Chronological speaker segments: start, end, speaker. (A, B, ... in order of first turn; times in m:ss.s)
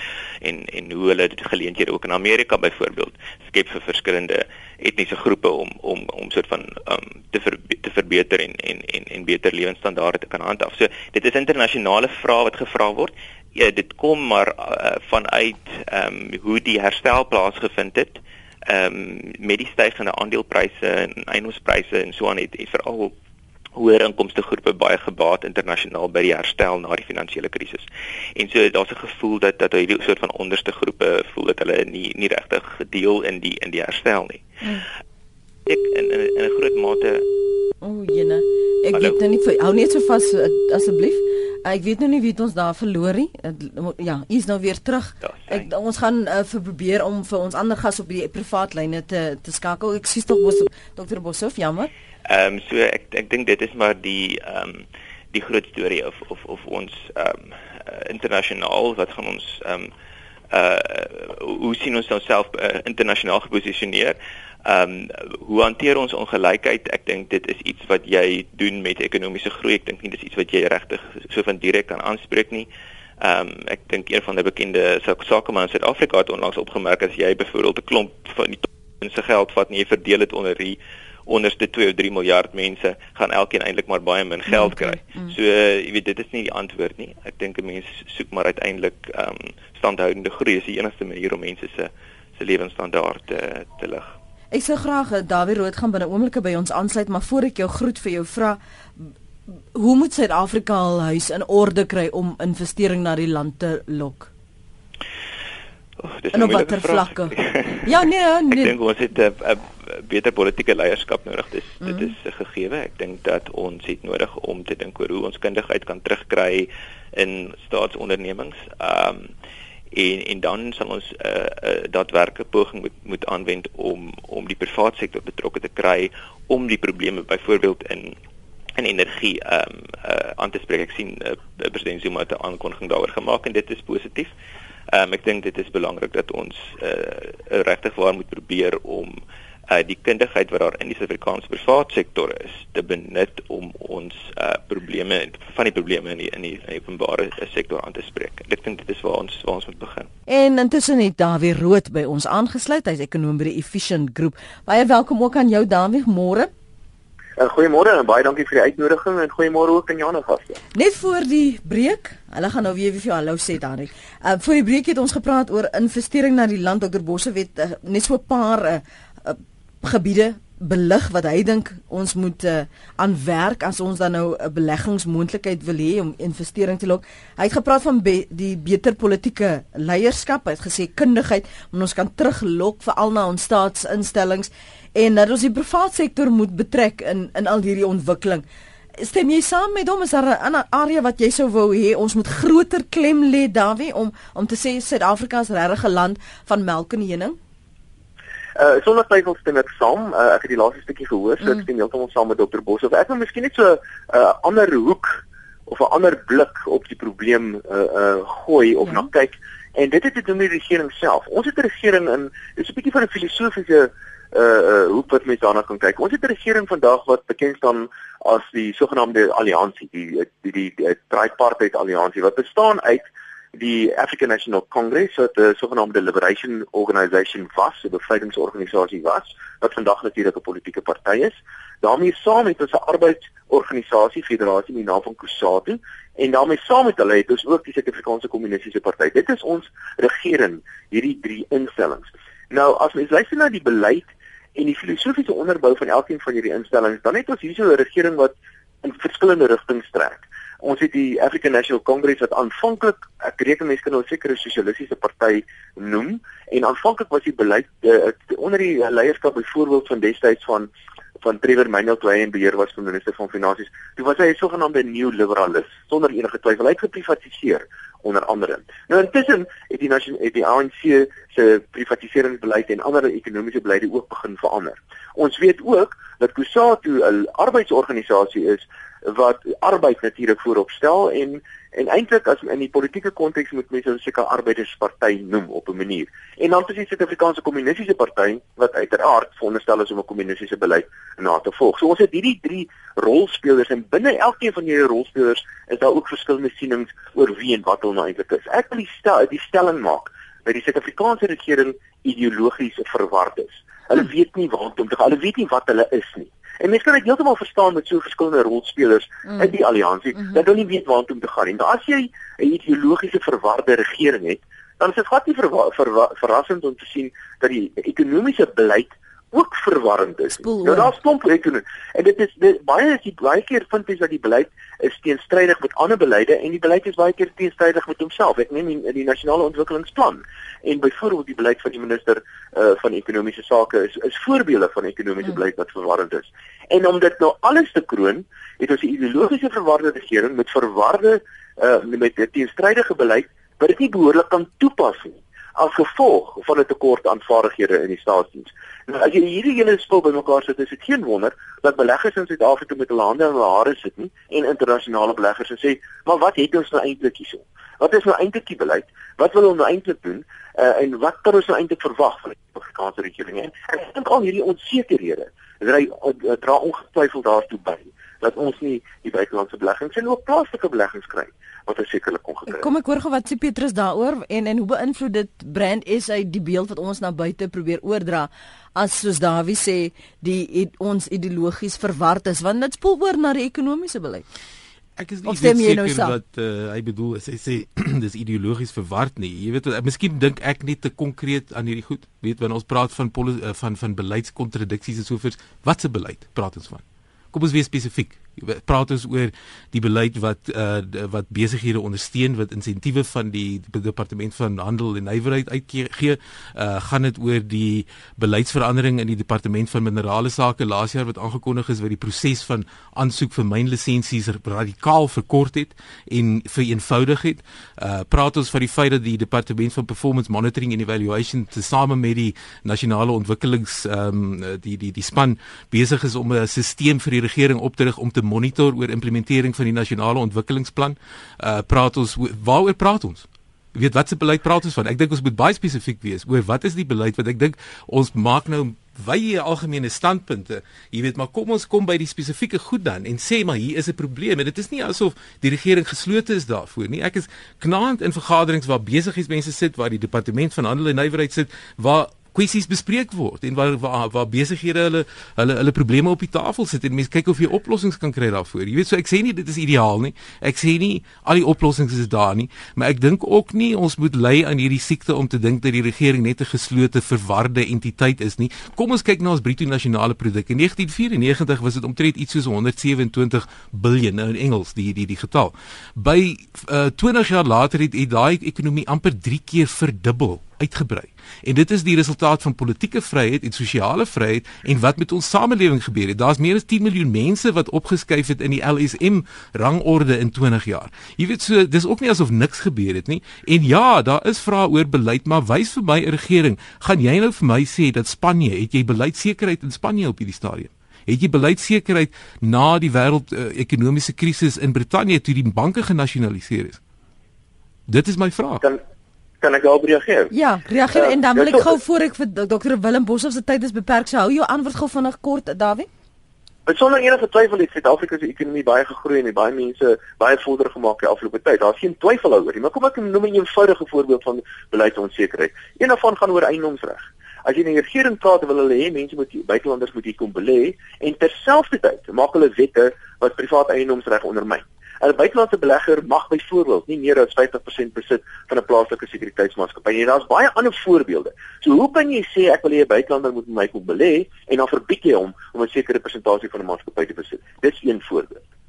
0:00.4-0:23.1 A
0:23.8-0:34.4 A
0:35.7-0:37.3 A
0:37.8-0:51.9 B
0:45.2-0:45.7 A
0:52.3-0:59.9 A
1:00.5-1:12.7 A
1:13.2-1:34.1 A
1:24.5-1:25.3 B
1:34.5-1:39.1 B
1:39.8-1:44.3 B
1:46.0-1:47.9 A
1:46.3-1:48.7 B
1:48.5-1:59.3 A
1:51.8-1:52.1 B
1:59.9-2:08.2 A
2:08.8-2:14.3 A
2:14.9-2:19.2 A
2:19.7-2:30.1 A
2:30.3-2:36.5 B
2:37.4-2:40.6 C
2:40.8-3:08.4 B
3:09.0-3:17.4 B
3:18.6-4:20.7 C
3:28.8-3:29.1 B
4:21.2-6:12.7 C
5:20.4-5:20.9 B
6:12.5-6:24.2 B
6:25.0-8:26.8 D
6:25.2-6:26.2 B
8:27.9-8:28.6 D
8:29.4-8:30.3 C
8:30.3-8:35.9 B
8:30.9-8:31.8 C
8:36.7-9:08.4 C